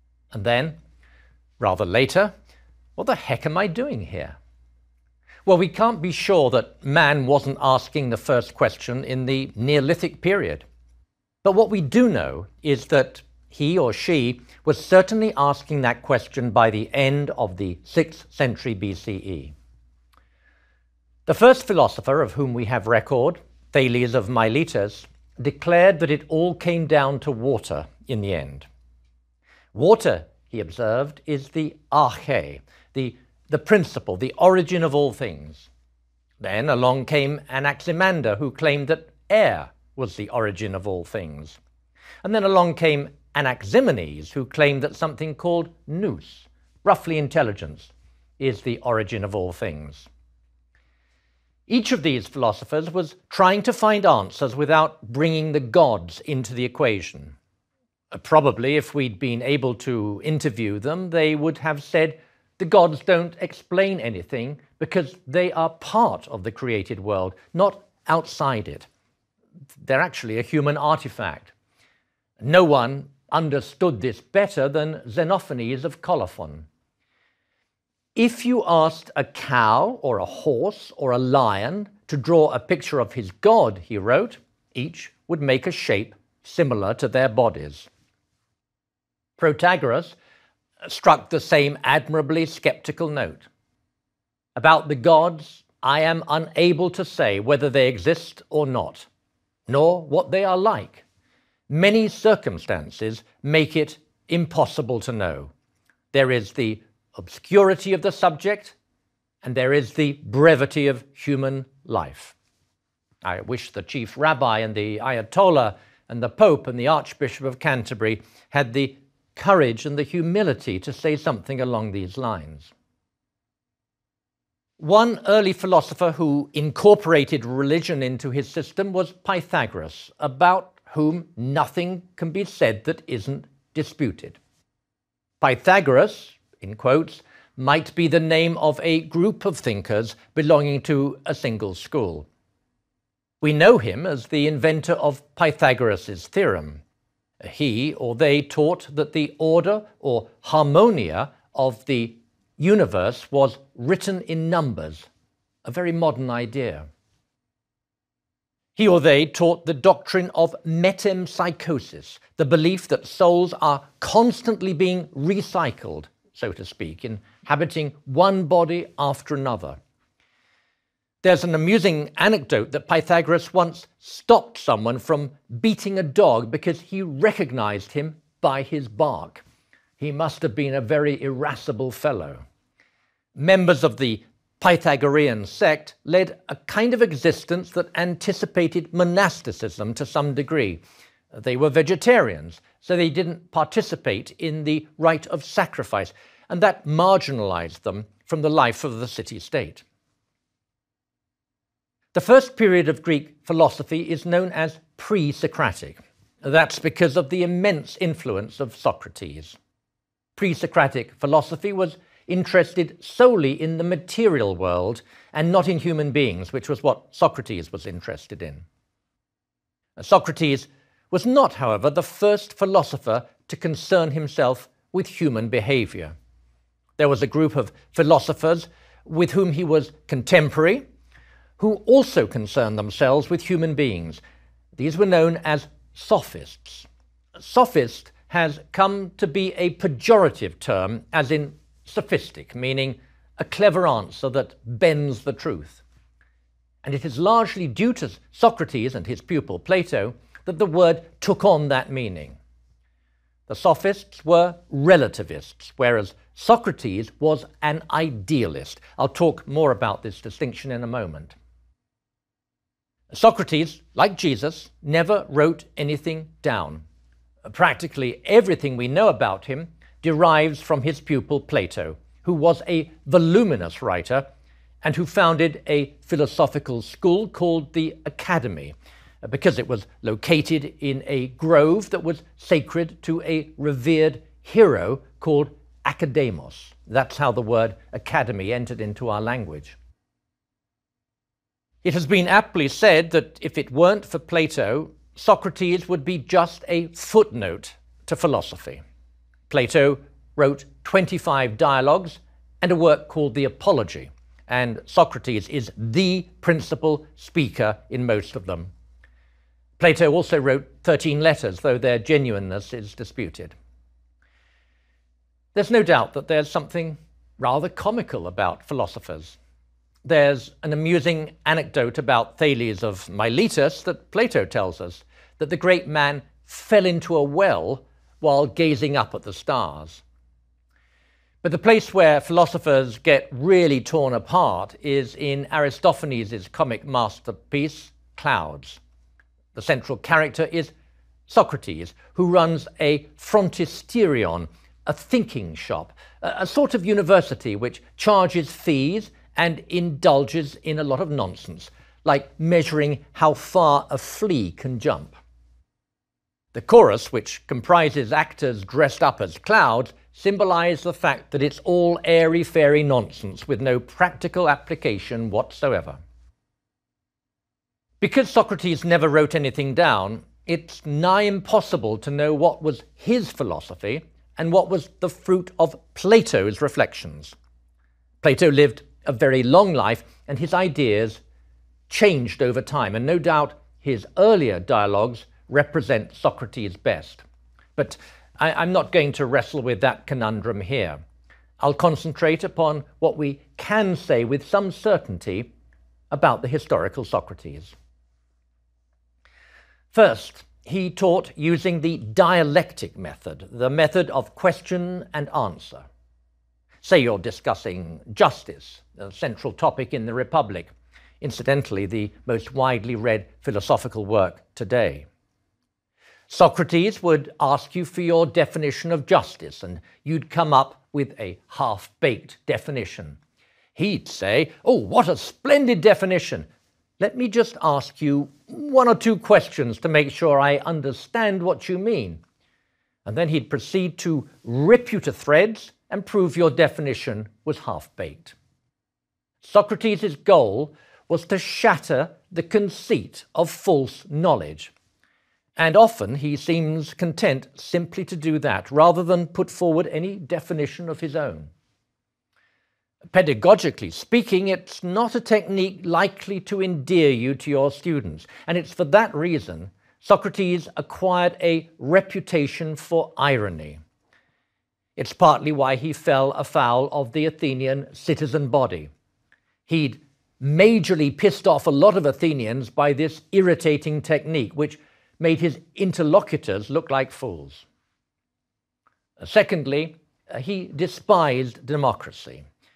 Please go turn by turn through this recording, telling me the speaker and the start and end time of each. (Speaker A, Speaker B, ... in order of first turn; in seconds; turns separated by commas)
Speaker A: 0.3-0.8, Speaker A: 1.6-2.3, Speaker A: 3.0-4.4, Speaker A: 5.5-10.6, Speaker A: 11.4-19.5, Speaker A: 21.2-28.7, Speaker A: 29.7-35.7, Speaker A: 36.4-41.6, Speaker A: 42.2-50.1, Speaker A: 51.7-57.3, Speaker A: 58.1-68.9, Speaker A: 69.8-71.5, Speaker A: 72.4-76.7, Speaker A: 78.1-87.9, Speaker A: 89.4-90.2, Speaker A: 90.8-93.5, Speaker A: 94.5-99.1, Speaker A: 99.7-101.0, Speaker A: 101.7-105.5, Speaker A: 106.1-108.8, Speaker A: 109.4-112.3, Speaker A: 113.2-122.7, Speaker A: 124.8-134.4, Speaker A: 135.4-142.3, Speaker A: 143.4-146.8, Speaker A: 147.4-155.1, Speaker A: 155.6-156.9, Speaker A: 158.8-169.8, Speaker A: 171.2-179.4, Speaker A: 180.0-182.4, Speaker A: 183.3-199.8, Speaker A: 202.1-209.6, Speaker A: 210.3-218.6, Speaker A: 220.0-226.1, Speaker A: 227.0-230.8, Speaker A: 231.6-234.2, Speaker A: 234.8-245.8, Speaker A: 246.8-252.4, Speaker A: 253.5-261.3, Speaker A: 263.1-266.8, Speaker A: 267.4-274.2, Speaker A: 274.8-289.8, Speaker A: 291.8-298.8, Speaker A: 299.5-308.7, Speaker A: 309.8-313.5, Speaker A: 315.5-319.4, Speaker A: 320.0-330.0, Speaker A: 331.4-338.8, Speaker A: 339.5-340.7, Speaker A: 341.3-355.1, Speaker A: 356.5-366.0, Speaker A: 368.0-377.4, Speaker A: 378.2-381.2, Speaker A: 381.9-387.2, Speaker A: 387.8-391.0, Speaker A: 391.6-395.5, Speaker A: 396.1-397.7, Speaker A: 399.9-405.8, Speaker A: 406.8-415.1, Speaker A: 416.3-423.2, Speaker A: 423.7-426.4, Speaker A: 427.0-432.2, Speaker A: 433.1-438.3, Speaker A: 439.4-444.7, Speaker A: 445.6-451.5, Speaker A: 453.1-463.8, Speaker A: 464.9-468.9, Speaker A: 469.7-477.6, Speaker A: 479.2-482.4